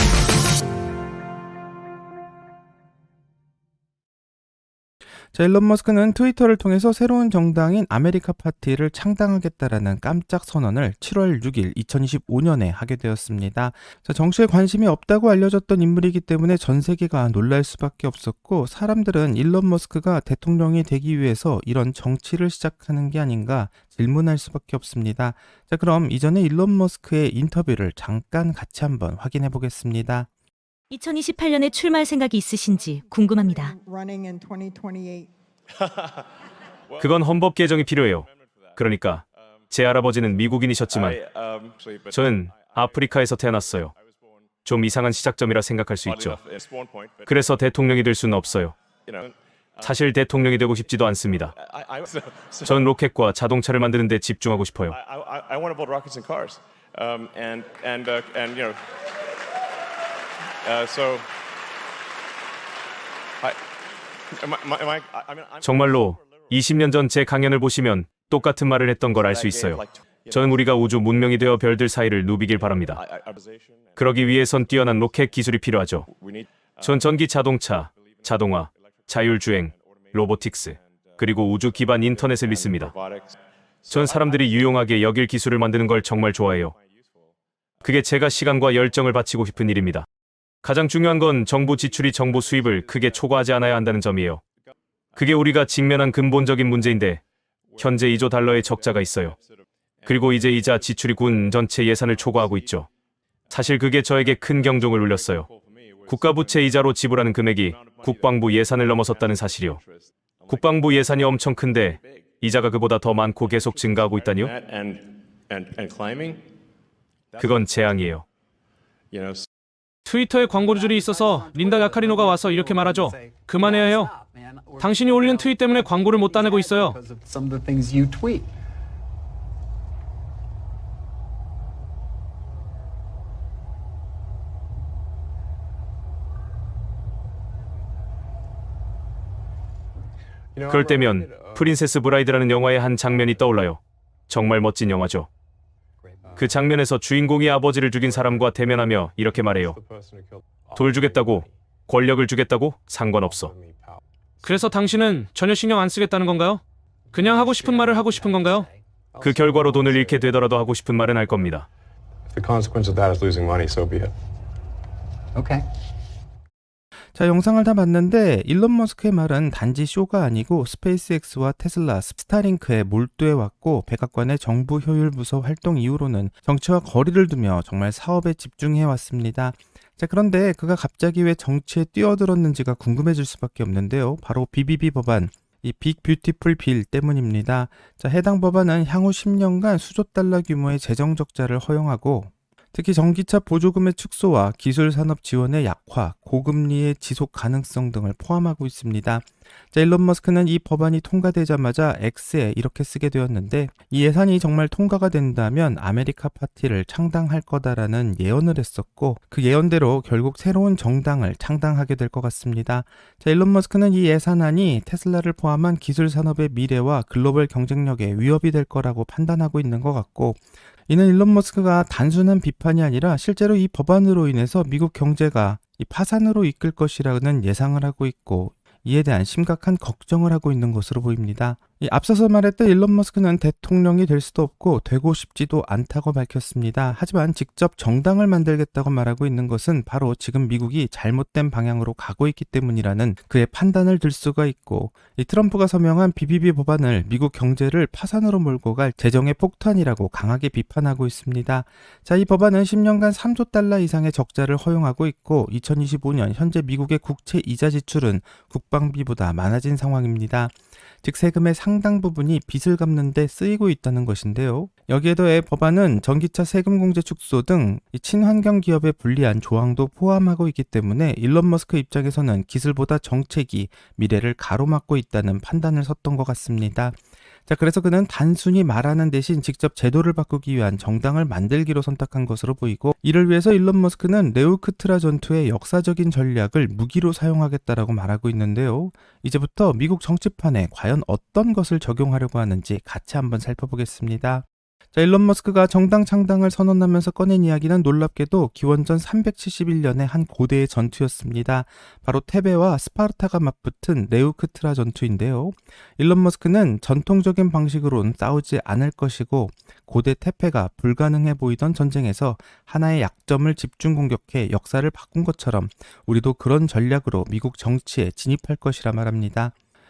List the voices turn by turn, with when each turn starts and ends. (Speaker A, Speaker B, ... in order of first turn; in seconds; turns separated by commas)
Speaker A: 5.3-30.3, Speaker B: 30.9-33.7, Speaker C: 33.1-35.3, Speaker D: 35.8-36.2, Speaker D: 36.9-38.8, Speaker E: 37.0-41.2, Speaker D: 39.7-44.0, Speaker E: 42.1-43.9, Speaker E: 44.6-46.4, Speaker D: 46.0-47.8, Speaker E: 47.3-48.7, Speaker D: 49.0-52.9, Speaker E: 49.8-51.5, Speaker E: 52.6-55.0, Speaker D: 54.9-58.9, Speaker D: 60.6-61.3, Speaker D: 64.3-66.7, Speaker E: 65.6-73.0, Speaker D: 69.0-85.0, Speaker E: 74.0-76.1, Speaker E: 76.8-82.9, Speaker E: 83.9-86.7, Speaker D: 86.3-86.8, Speaker D: 87.8-89.1, Speaker E: 87.8-90.0, Speaker E: 90.6-94.4, Speaker D: 91.5-95.6, Speaker E: 95.2-97.2, Speaker D: 96.6-97.1, Speaker D: 97.7-102.9, Speaker E: 97.8-99.3, Speaker E: 100.0-102.9, Speaker D: 103.5-112.4, Speaker E: 103.5-105.5, Speaker E: 106.1-109.8, Speaker E: 110.5-114.5, Speaker D: 113.3-116.5, Speaker D: 117.3-118.2, Speaker E: 117.4-118.2, Speaker D: 119.1-119.5, Speaker F: 120.0-124.1, Speaker G: 120.4-128.5, Speaker F: 124.8-127.0, Speaker H: 140.5-141.6, Speaker E: 140.7-145.3, Speaker G: 146.0-146.6, Speaker E: 146.4-149.8, Speaker H: 149.5-151.5, Speaker E: 150.8-153.5, Speaker D: 150.8-151.3, Speaker H: 153.2-154.6, Speaker F: 154.4-158.7, Speaker G: 157.1-158.8, Speaker H: 159.1-160.0, Speaker E: 159.2-161.7, Speaker D: 159.9-160.2, Speaker H: 162.3-164.1, Speaker G: 165.3-165.6, Speaker A: 167.1-276.9, Speaker A: 277.5-319.5